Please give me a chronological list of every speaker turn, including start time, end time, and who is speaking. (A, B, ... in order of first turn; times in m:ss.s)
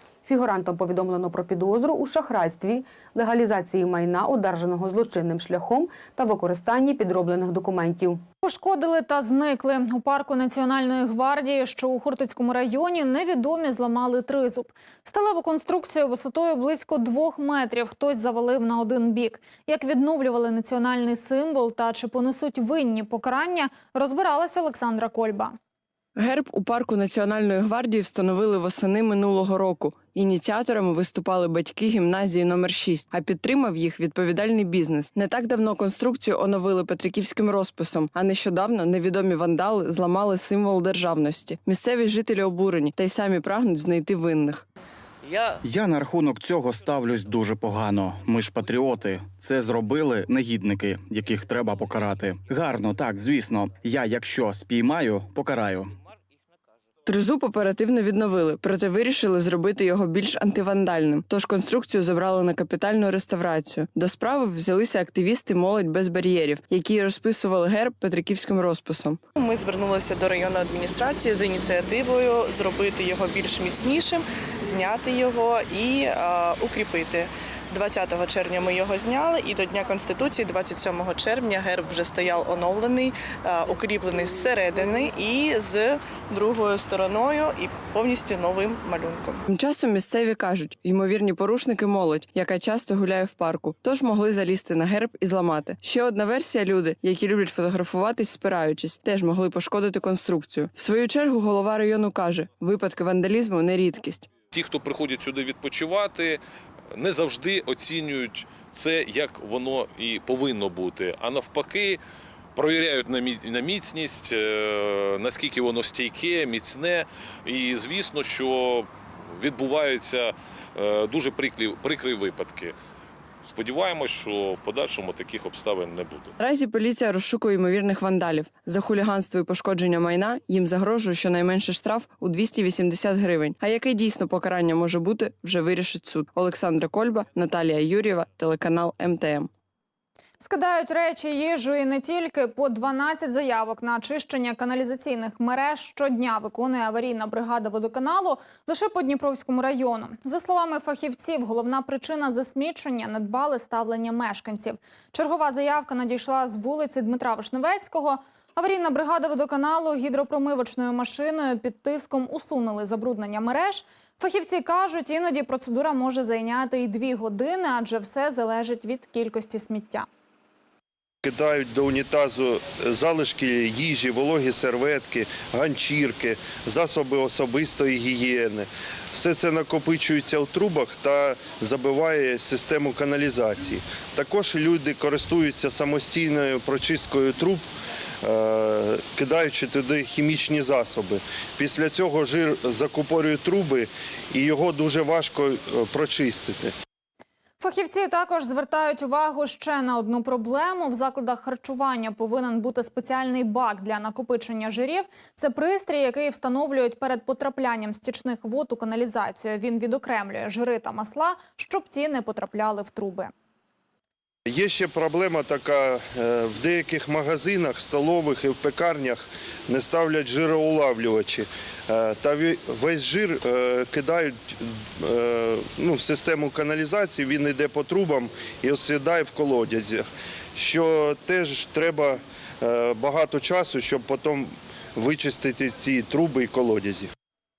0:00.2-0:08.2 A
0:08.4-0:25.6 B
0:26.2-0:44.6 C
0:45.6-0:55.9 D
0:57.1-1:09.2 C
1:09.4-1:29.4 E
1:29.5-1:44.3 C
1:44.5-1:46.4 F
1:46.9-1:52.0 F
1:52.6-2:02.8 F
2:03.4-2:06.3 F
2:06.4-2:19.5 C
2:20.4-2:50.1 B
2:51.2-3:07.7 G
3:08.2-3:16.7 G
3:17.6-3:33.3 B
3:34.5-3:57.1 G